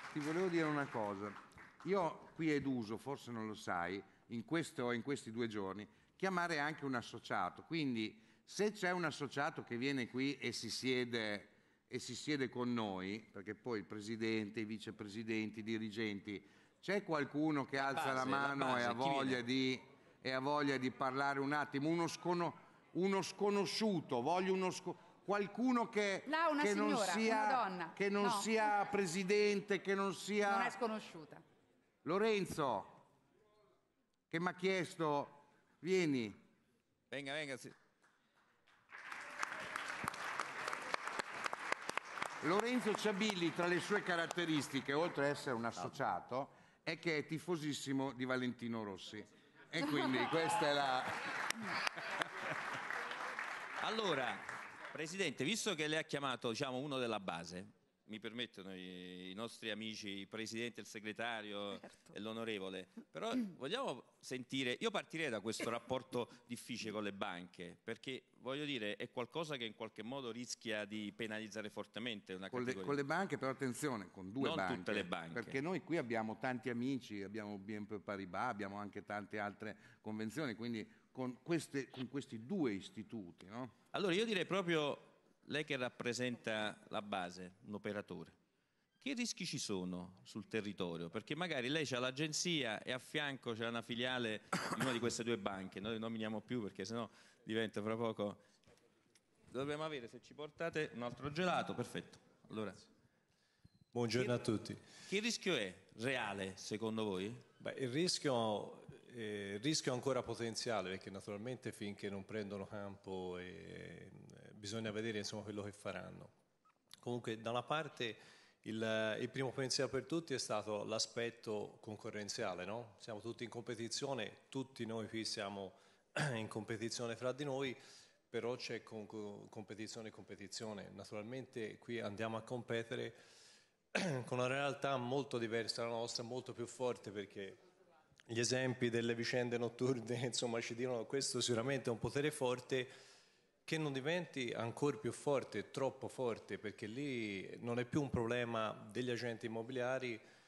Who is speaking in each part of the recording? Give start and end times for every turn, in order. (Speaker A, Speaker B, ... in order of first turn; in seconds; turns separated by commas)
Speaker A: 0.1-30.8, Speaker B: 17.8-19.4, Speaker C: 26.3-28.5, Speaker C: 30.5-31.4, Speaker A: 32.0-33.0, Speaker A: 34.3-36.4, Speaker B: 37.1-37.7, Speaker A: 42.4-51.7, Speaker B: 53.8-73.0, Speaker A: 72.5-83.7, Speaker B: 74.4-75.6, Speaker B: 83.9-88.4, Speaker B: 89.0-98.4, Speaker B: 99.5-102.8, Speaker D: 103.9-104.8, Speaker B: 105.1-107.4, Speaker D: 107.6-116.3, Speaker D: 117.0-127.8, Speaker D: 128.3-133.2, Speaker D: 133.9-137.6, Speaker D: 138.3-142.9, Speaker D: 143.7-150.2